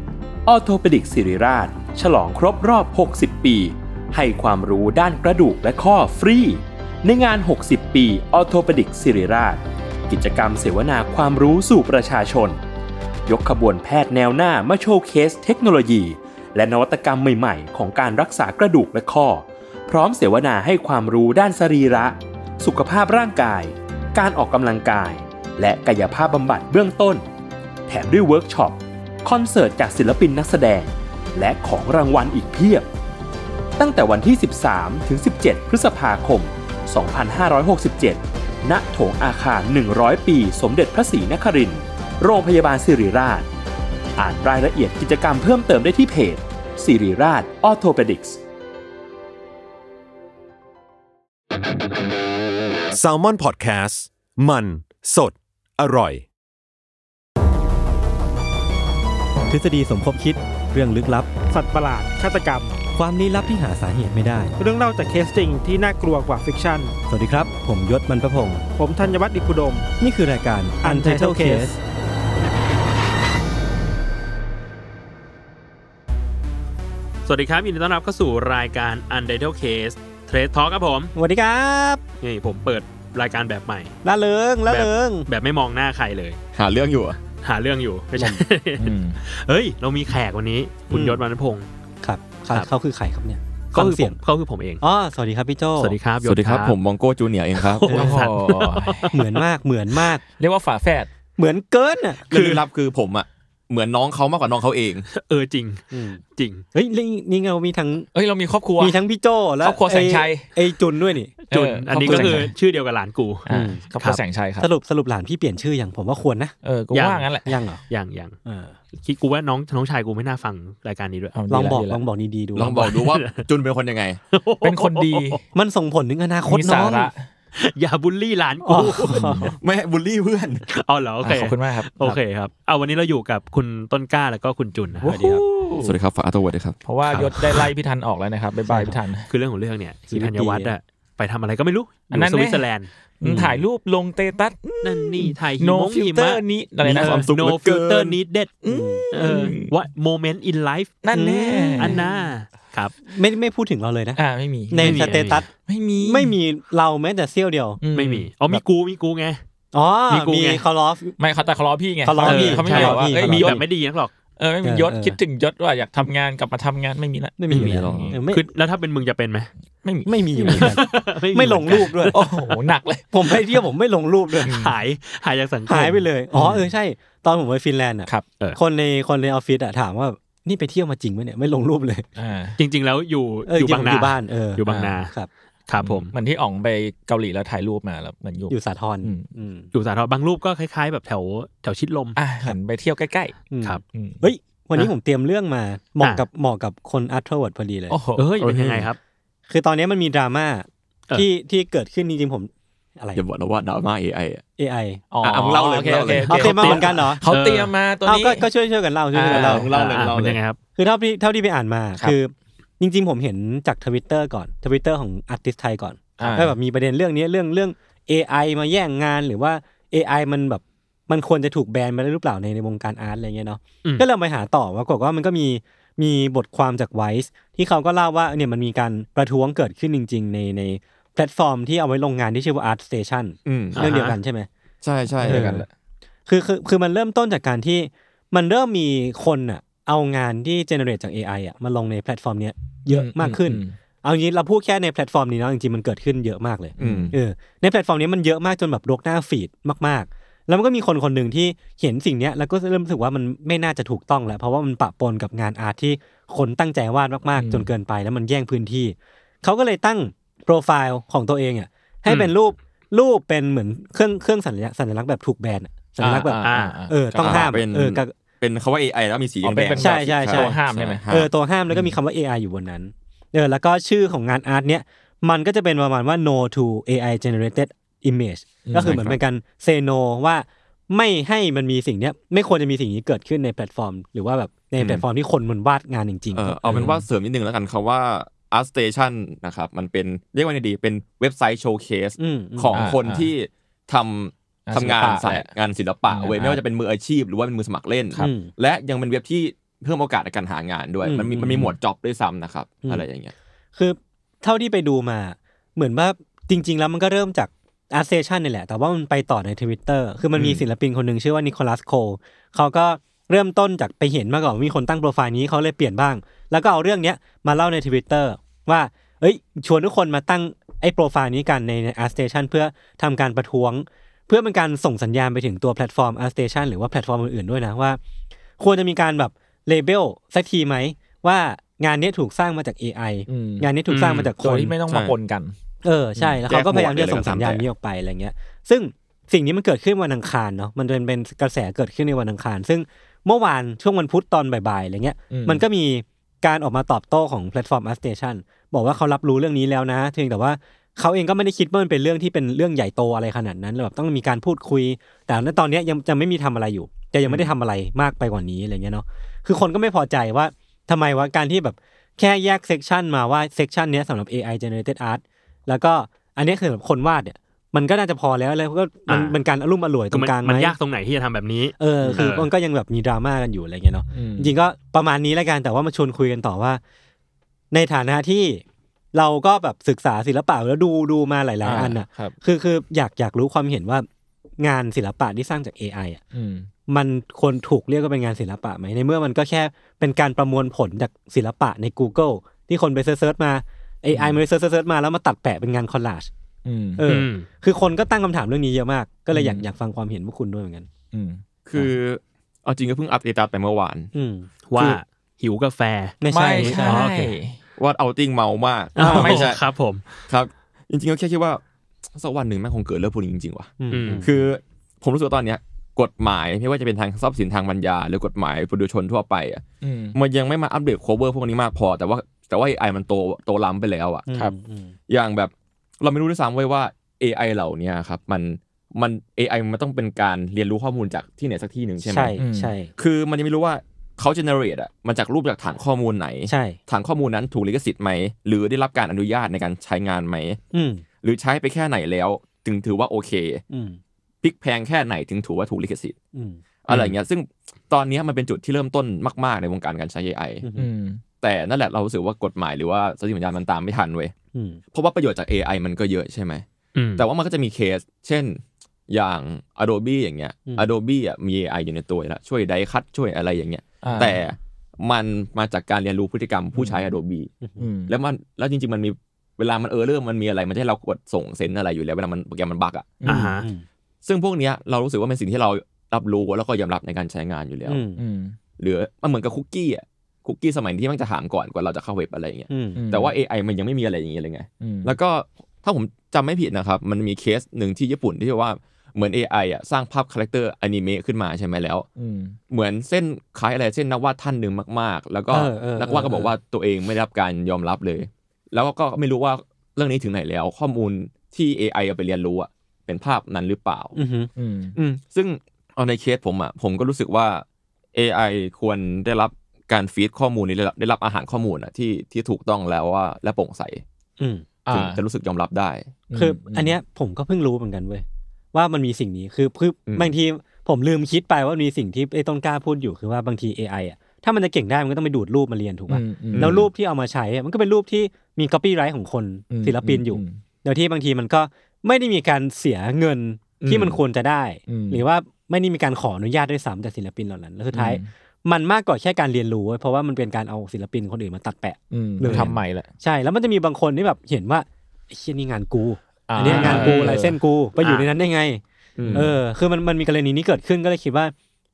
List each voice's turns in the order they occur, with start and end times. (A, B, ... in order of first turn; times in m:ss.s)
0:00.5-0:12.6 A
0:13.3-0:27.2 A
0:27.9-0:32.9 A
0:33.8-0:43.5 A
0:44.2-0:48.4 A
0:52.9-0:56.3 B
0:59.5-1:01.3 C
1:01.5-1:02.8 D
1:03.0-1:04.5 C
1:04.6-1:06.9 D
1:07.1-1:08.6 C
1:08.8-1:09.9 D
1:10.0-1:11.8 C
1:10.8-1:11.8 D
1:17.3-1:21.1 E
1:21.2-1:22.0 C
1:22.2-1:24.0 E
1:24.0-1:25.3 C
1:24.7-1:26.4 E
1:26.6-1:27.2 F
1:27.4-1:31.7 E
1:28.2-1:28.4 C
1:28.8-1:29.2 G
1:30.9-1:31.2 C
1:32.0-1:34.2 C
1:33.7-1:34.8 E
1:34.8-1:36.0 C
1:35.8-1:36.8 E
1:36.2-1:38.1 F
1:37.6-1:39.4 E
1:37.9-1:39.1 G
1:39.1-1:40.2 C
1:40.4-1:41.1 G
1:41.4-1:42.3 C
1:42.3-1:42.6 E
1:42.3-1:45.1 F
1:45.1-1:46.6 E
1:45.9-1:46.2 C
1:46.7-1:48.1 C
1:48.1-1:49.0 G
1:48.8-1:51.4 C
1:49.6-1:50.5 G
1:51.5-1:53.5 E
1:51.5-1:52.5 G
1:52.0-1:52.4 C
1:53.5-1:54.7 G
1:53.5-1:53.8 C
1:54.6-1:56.5 C
1:56.6-1:57.6 G
1:56.9-1:57.3 E
1:57.5-1:57.8 C
1:57.9-1:58.4 E
1:58.5-1:58.8 C
1:58.9-2:01.4 E
2:01.3-2:02.0 G
2:01.5-2:02.8 C
2:02.6-2:04.2 F
2:02.6-2:03.5 E
2:04.3-2:05.4 E
2:04.6-2:05.4 G
2:05.5-2:07.1 C
2:06.5-2:07.3 G
2:07.6-2:09.2 E
2:08.6-2:09.5 C
2:09.1-2:09.6 G
2:09.6-2:10.6 F
2:10.7-2:15.2 E
2:11.2-2:12.2 G
2:15.0-2:16.0 G
2:15.8-2:16.8 F
2:16.8-2:19.3 G
2:18.7-2:19.0 C
2:19.3-2:22.9 E
2:20.1-2:20.7 C
2:22.1-2:22.7 G
2:23.2-2:27.3 G
2:23.2-2:23.6 F
2:24.8-2:26.4 E
2:26.8-2:28.2 F
2:27.0-2:28.5 E
2:28.6-2:29.7 G
2:28.7-2:29.0 C
2:29.1-2:31.0 E
2:31.0-2:32.0 G
2:31.1-2:32.0 C
2:31.8-2:33.0 E
2:33.1-2:35.5 C
2:34.2-2:36.4 G
2:34.8-2:35.4 E
2:36.0-2:37.8 C
2:37.8-2:38.6 G
2:37.9-2:39.4 E
2:39.7-2:41.2 C
2:40.1-2:40.6 E
2:41.2-2:43.7 G
2:42.0-2:43.6 C
2:42.3-2:44.1 E
2:42.6-2:43.0 F
2:44.4-2:48.2 G
2:44.6-2:45.2 C
2:47.4-2:48.5 C
2:47.5-2:48.2 F
2:48.3-2:49.5 E
2:49.8-2:50.8 G
2:50.1-2:52.2 C
2:50.5-2:52.2 E
2:52.1-2:53.6 G
2:53.1-2:54.5 C
2:54.4-2:56.1 E
2:54.5-2:54.8 G
2:55.7-3:02.1 C
2:56.4-2:56.7 G
3:02.2-3:02.6 G
3:02.6-3:05.1 E
3:03.5-3:05.3 C
3:04.6-3:05.0 G
3:05.7-3:06.1 E
3:05.8-3:09.3 G
3:08.5-3:09.7 C
3:09.7-3:12.2 E
3:12.2-3:13.4 G
3:13.5-3:18.0 C
3:13.9-3:14.2 G
3:17.9-3:18.5 G
3:18.2-3:19.0 E
3:18.4-3:18.9 F
3:19.5-3:23.2 C
3:23.2-3:24.4 F
3:24.6-3:25.0 C
3:25.1-3:28.5 G
3:25.2-3:26.8 F
3:26.3-3:27.2 C
3:26.3-3:27.7 E
3:28.0-3:30.0 C
3:29.1-3:29.7 G
3:29.3-3:30.4 F
3:29.7-3:30.6 E
3:30.8-3:54.5 C
3:36.2-3:36.6 G
3:53.5-3:53.8 F
3:53.8-3:54.2 E
3:54.8-3:55.7 F
3:55.1-3:55.6 G
3:55.2-3:55.7 C
3:56.3-4:28.1 C
4:02.9-4:03.8 G
4:06.8-4:07.1 G
4:06.8-4:07.2 F
4:17.4-4:17.7 G
4:22.1-4:22.3 E
4:26.0-4:27.5 G
4:26.4-4:26.8 E
4:27.2-4:31.3 F
4:29.4-4:31.0 G
4:29.8-4:30.6 C
4:31.1-4:46.9 C
4:38.7-4:39.2 G
4:46.3-5:03.3 F
4:46.7-4:47.0 G
4:52.2-4:52.8 C
4:52.7-4:53.3 G
4:54.7-4:55.5 G
4:56.1-4:56.6 G
4:58.2-4:58.5 C
5:01.0-5:01.6 C
5:01.4-5:01.7 G
5:03.8-5:28.0 C
5:10.4-5:10.6 F
5:28.6-5:34.8 C
5:33.3-5:35.6 G
5:33.9-5:34.3 E
5:34.9-5:35.1 F
5:35.8-6:10.8 C
5:36.5-5:37.6 F
5:45.3-5:45.6 G
6:09.1-6:09.4 E
6:10.1-6:12.5 E
6:11.8-6:16.8 C
6:14.1-6:14.6 G
6:17.7-6:24.1 C
6:21.6-6:22.4 G
6:24.6-6:26.2 C
6:26.3-6:26.7 G
6:26.9-6:36.3 C
6:34.1-6:34.4 G
6:36.6-6:37.2 G
6:37.0-6:40.9 C
6:37.0-6:37.5 E
6:39.3-6:39.7 G
6:41.1-6:41.9 G
6:41.6-6:44.1 F
6:44.1-6:44.5 C
6:44.7-6:47.3 E
6:44.8-6:45.0 F
6:46.2-6:47.0 C
6:46.3-6:47.6 G
6:47.8-6:49.6 F
6:49.0-6:50.2 E
6:49.0-6:49.5 G
6:50.3-6:59.6 F
6:53.8-6:54.3 C
6:53.9-6:54.3 E
6:59.8-7:00.2 G
7:00.2-7:04.3 F
7:04.3-7:04.9 C
7:05.1-7:12.4 F
7:12.0-7:12.9 C
7:12.4-7:12.8 G
7:13.0-7:20.6 F
7:16.5-7:16.8 C
7:20.7-7:21.0 C
7:21.2-7:23.6 F
7:23.7-7:24.0 C
7:24.4-7:26.2 F
7:26.3-7:26.6 C
7:26.9-7:30.7 F
7:30.6-7:30.9 C
7:30.8-7:31.2 G
7:31.4-7:34.3 F
7:34.5-7:34.8 C
7:34.9-7:36.6 F
7:37.0-7:37.3 E
7:37.2-7:47.5 F
7:44.0-7:44.4 G
7:46.8-7:47.0 G
7:47.6-7:47.9 C
7:47.8-7:48.1 G
7:48.1-7:53.2 F
7:53.2-7:53.6 G
7:53.2-7:53.6 E
7:53.3-7:53.8 C
7:54.2-7:58.0 F
7:57.9-7:58.2 C
7:58.2-7:58.6 G
7:58.8-8:12.1 F
8:02.7-8:03.0 C
8:03.0-8:03.4 G
8:04.8-8:05.2 G
8:12.2-8:12.6 G
8:12.7-8:24.2 F
8:15.5-8:16.5 C
8:24.2-8:25.2 C
8:24.6-8:25.0 G
8:25.3-8:34.0 F
8:34.4-8:34.6 C
8:34.9-8:35.2 G
8:34.9-8:36.2 F
8:36.3-8:37.0 G
8:36.4-9:08.8 C
8:40.1-8:40.3 F
8:46.1-8:46.9 G
8:46.5-8:46.9 F
8:49.7-8:50.6 G
8:53.8-8:54.2 F
8:54.9-8:55.2 G
8:57.9-8:58.3 G
9:02.1-9:03.1 G
9:02.4-9:02.8 F
9:06.5-9:07.6 G
9:06.7-9:07.2 F
9:08.0-9:08.3 E
9:09.2-9:09.5 F
9:09.3-9:09.6 G
9:09.3-9:11.5 C